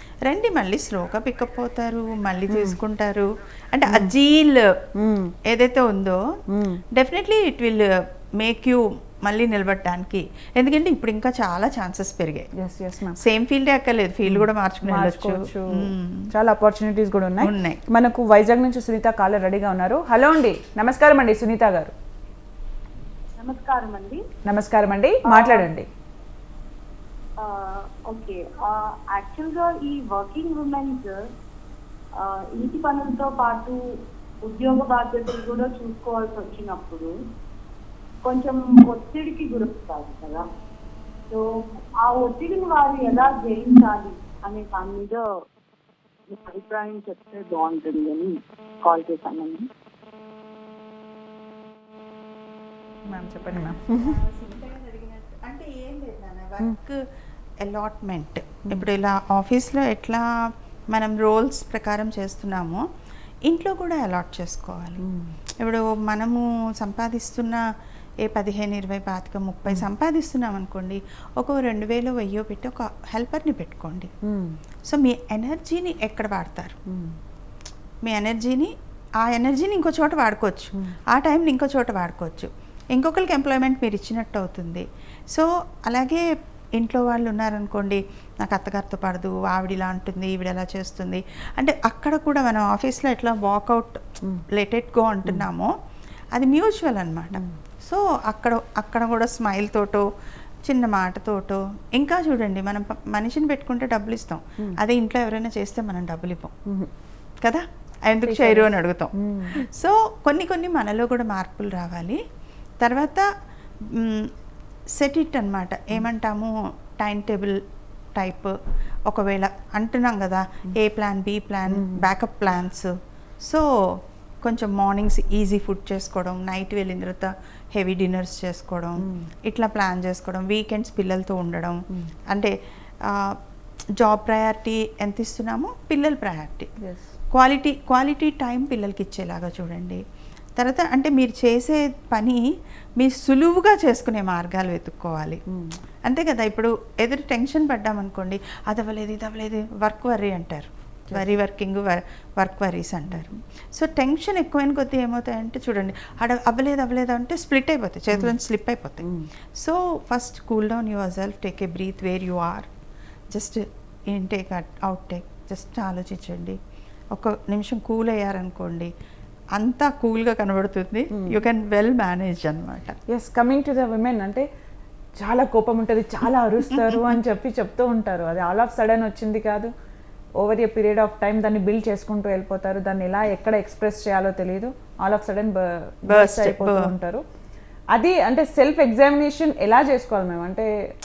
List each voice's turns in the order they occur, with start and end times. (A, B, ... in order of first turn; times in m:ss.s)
0:00.2-0:04.7 A
0:02.5-0:02.8 B
0:05.0-0:05.3 B
0:05.4-0:06.2 A
0:06.5-0:06.8 B
0:06.9-0:12.5 A
0:12.6-0:13.2 B
0:13.2-0:16.3 A
0:14.3-0:21.9 B
0:17.4-0:17.8 A
0:23.4-0:24.2 C
0:24.5-0:25.9 B
0:25.3-0:25.7 C
0:27.4-0:31.2 C
0:32.2-0:33.8 C
0:34.5-0:37.1 C
0:38.2-0:40.5 C
0:42.0-0:45.2 C
0:46.3-0:49.7 C
0:53.1-0:54.2 B
0:53.9-0:57.0 A
0:57.6-1:00.3 A
1:00.9-1:02.8 A
1:03.5-1:05.0 A
1:05.0-1:05.4 B
1:05.6-1:07.6 A
1:08.2-1:14.1 A
1:14.2-1:14.6 B
1:14.8-1:16.8 A
1:16.9-1:17.2 B
1:18.0-1:35.7 A
1:36.3-1:40.1 A
1:37.3-1:37.6 B
1:40.7-1:46.5 A
1:47.4-1:52.2 A
1:48.3-1:49.6 B
1:52.8-1:53.3 A
1:53.8-1:54.3 A
1:54.9-1:57.6 A
1:58.2-2:13.4 A
2:01.7-2:02.0 B
2:09.0-2:09.3 B
2:14.0-2:16.7 A
2:16.8-2:17.1 B
2:17.3-2:20.0 A
2:20.6-2:22.5 A
2:23.0-2:25.4 A
2:25.5-2:25.8 B
2:26.0-2:42.7 A
2:39.0-2:39.3 B
2:43.3-2:46.6 A
2:47.1-2:48.9 A
2:49.6-2:53.0 A
2:51.1-2:51.4 B
2:53.1-2:54.5 B
2:55.2-2:59.7 B
3:00.4-3:07.2 B
3:06.1-3:06.9 A
3:08.0-3:10.7 B